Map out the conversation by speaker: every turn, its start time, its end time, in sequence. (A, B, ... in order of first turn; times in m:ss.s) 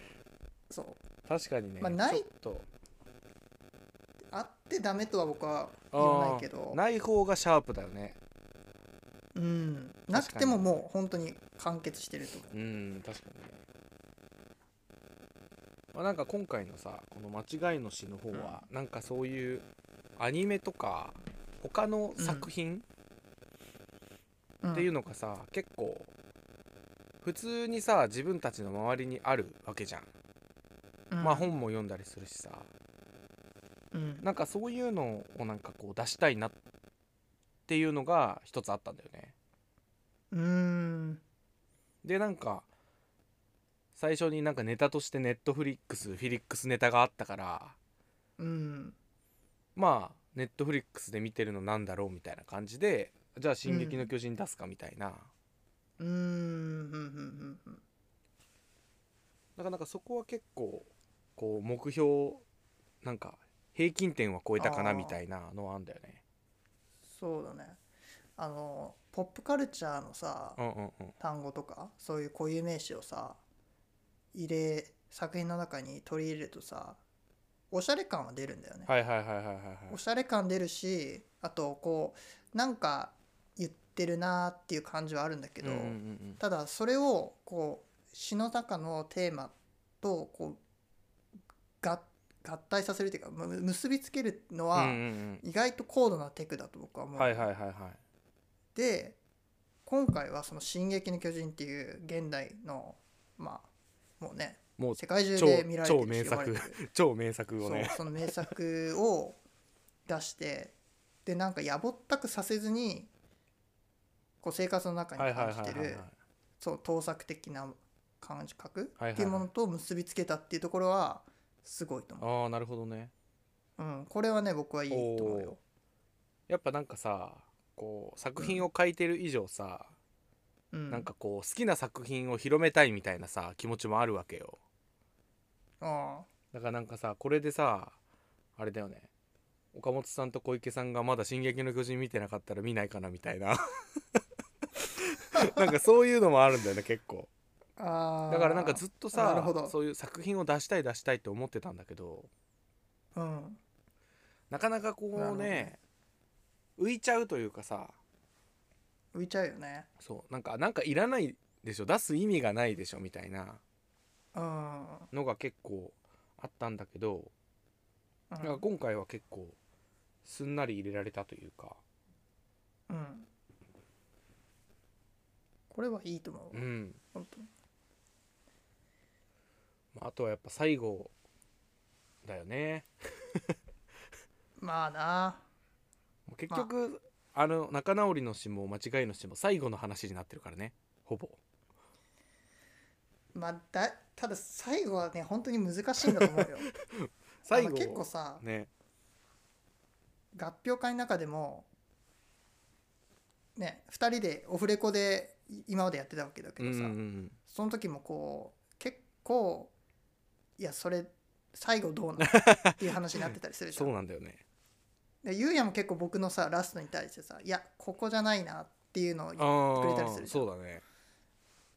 0:00.7-0:01.0 A
0:01.2-0:02.6 B
0:01.8-0:02.3 A
0:04.3-0:06.8 A
0:05.9-0:08.2 B
0:09.3-0:12.5 A
0:10.1-0:10.7 B
0:12.5-0:13.6 B
0:15.9-0:19.6 B
0:18.3-0:18.6 A
0:20.2-0:22.8 B
0:22.2-0:22.5 A
0:24.6-0:24.9 A
0:24.7-0:26.1 B
0:27.2-0:30.1 B
0:31.1-0:31.5 A
0:31.2-0:32.7 B
0:33.9-0:34.3 A
0:34.2-0:36.6 B
0:37.7-0:39.3 B
0:40.3-0:41.2 A
0:42.0-0:42.7 B
0:43.9-0:47.8 B
0:48.4-0:49.0 A
0:49.8-0:55.3 B
0:53.6-0:54.1 A
0:56.0-0:57.8 A
0:59.6-1:02.4 B
1:03.0-1:06.2 B
1:04.6-1:05.2 A
1:07.1-1:07.8 A
1:08.4-1:10.6 A
1:10.6-1:11.2 B
1:11.2-1:13.4 A
1:14.3-1:17.0 A
1:17.7-1:18.9 A
1:18.9-1:20.0 B
1:19.9-1:30.6 A
1:25.6-1:26.4 B
1:31.8-1:37.5 A
1:34.7-1:35.4 B
1:37.2-1:38.0 B
1:38.7-1:39.2 A
1:39.8-1:43.7 A
1:44.2-1:46.8 A
1:44.8-1:48.5 B
1:47.6-1:49.4 A
1:50.1-1:50.7 A
1:51.2-1:53.1 A
1:54.4-1:56.1 A
1:55.2-1:56.1 B
1:56.6-2:02.3 A
1:59.0-1:59.5 B
2:02.2-2:03.1 B
2:03.8-2:05.6 A
2:04.9-2:05.6 B
2:06.5-2:09.9 B
2:08.4-2:08.6 A
2:10.7-2:11.1 A
2:10.9-2:14.6 B
2:15.8-2:16.3 A
2:16.5-2:18.0 B
2:18.6-2:19.1 B
2:19.7-2:23.6 B
2:25.0-2:27.3 B
2:27.8-2:29.7 A
2:28.3-2:32.3 B
2:33.1-2:33.6 A
2:34.5-2:35.8 B
2:35.2-2:35.7 A
2:36.8-2:38.0 B
2:39.1-2:39.9 A
2:40.0-2:43.6 B
2:44.3-2:45.1 A
2:45.1-2:47.3 B
2:48.3-2:48.6 A
2:48.4-2:49.6 B
2:50.2-2:51.8 B
2:52.9-2:53.3 A
2:55.7-2:57.5 A
2:56.5-2:57.0 B
2:59.9-3:01.1 B
3:02.2-3:03.5 B
3:04.6-3:05.4 A
3:06.3-3:11.4 B
3:13.3-3:16.7 A
3:16.2-3:18.7 B
3:17.5-3:18.4 A
3:20.3-3:21.7 A
3:23.6-3:29.7 A
3:26.6-3:27.4 B
3:30.6-3:33.9 A
3:32.3-3:32.8 B
3:33.7-3:34.4 B
3:35.2-3:40.4 A
3:39.4-3:40.8 B